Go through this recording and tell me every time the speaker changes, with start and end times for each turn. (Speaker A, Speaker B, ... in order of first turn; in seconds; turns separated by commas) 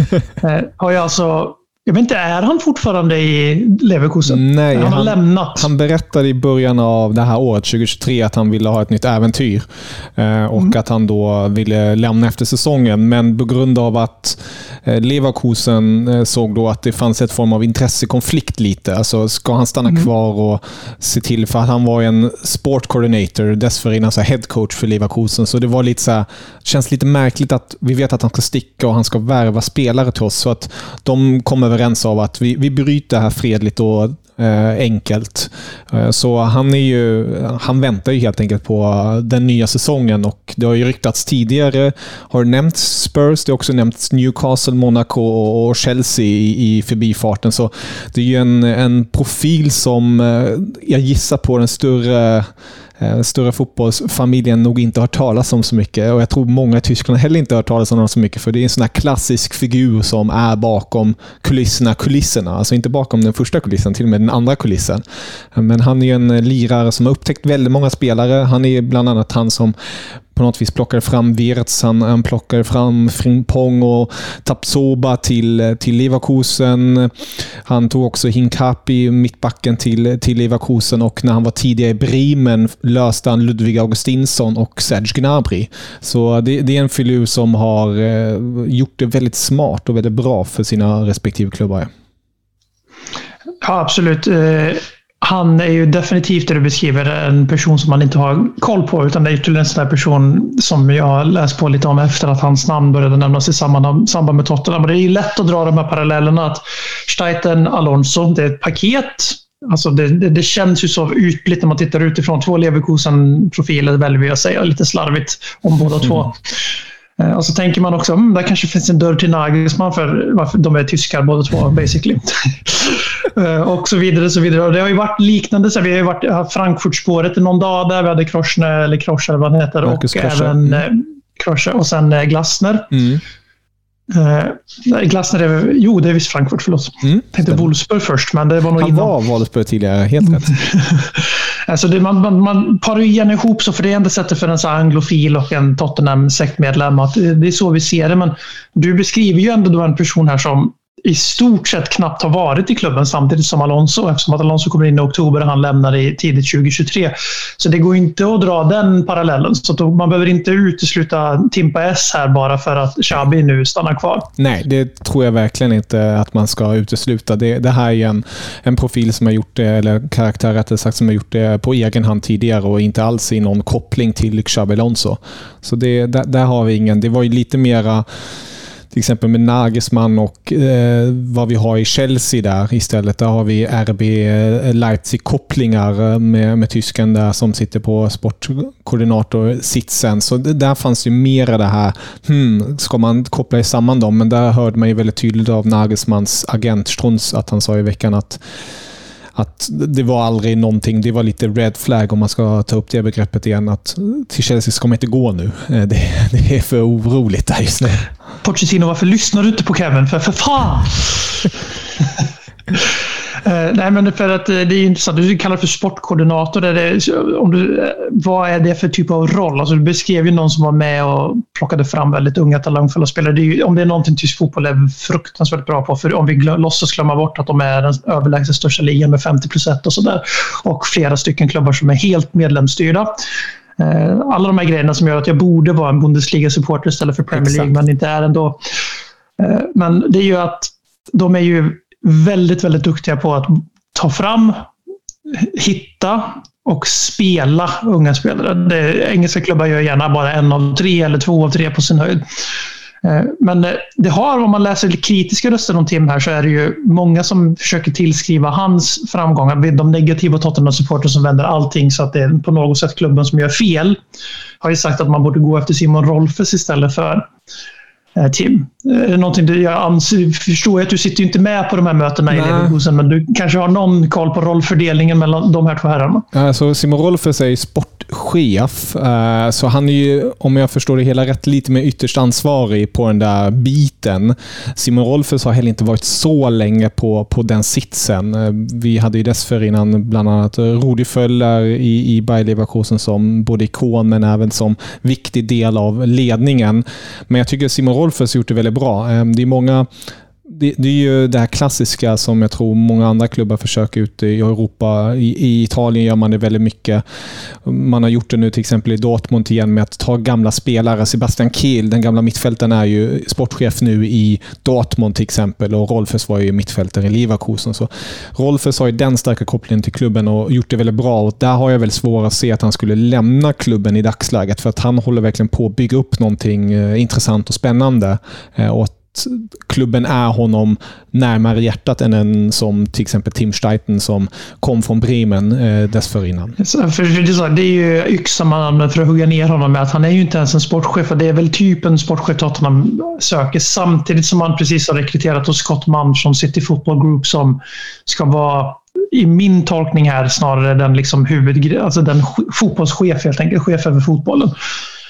Speaker A: 0.4-5.7, Speaker B: 4.3-65.0, Speaker B: 65.5-69.7, Speaker B: 70.3-91.9, Speaker A: 93.6-116.6, Speaker A: 117.2-133.1, Speaker B: 129.8-130.8, Speaker B: 132.9-133.2, Speaker A: 134.1-139.1, Speaker B: 137.1-137.7, Speaker B: 138.8-140.6, Speaker A: 140.4-164.3, Speaker B: 164.4-178.1, Speaker B: 178.9-198.4, Speaker B: 199.3-208.1, Speaker A: 208.4-211.5, Speaker A: 212.7-233.1, Speaker A: 233.8-238.6, Speaker B: 237.3-237.7, Speaker A: 239.4-244.7, Speaker A: 245.3-252.2, Speaker A: 253.0-264.0, Speaker A: 264.6-267.3, Speaker A: 268.1-276.2, Speaker B: 272.3-272.8, Speaker B: 276.3-299.9, Speaker B: 300.4-307.0, Speaker B: 307.6-336.6, Speaker A: 336.6-354.5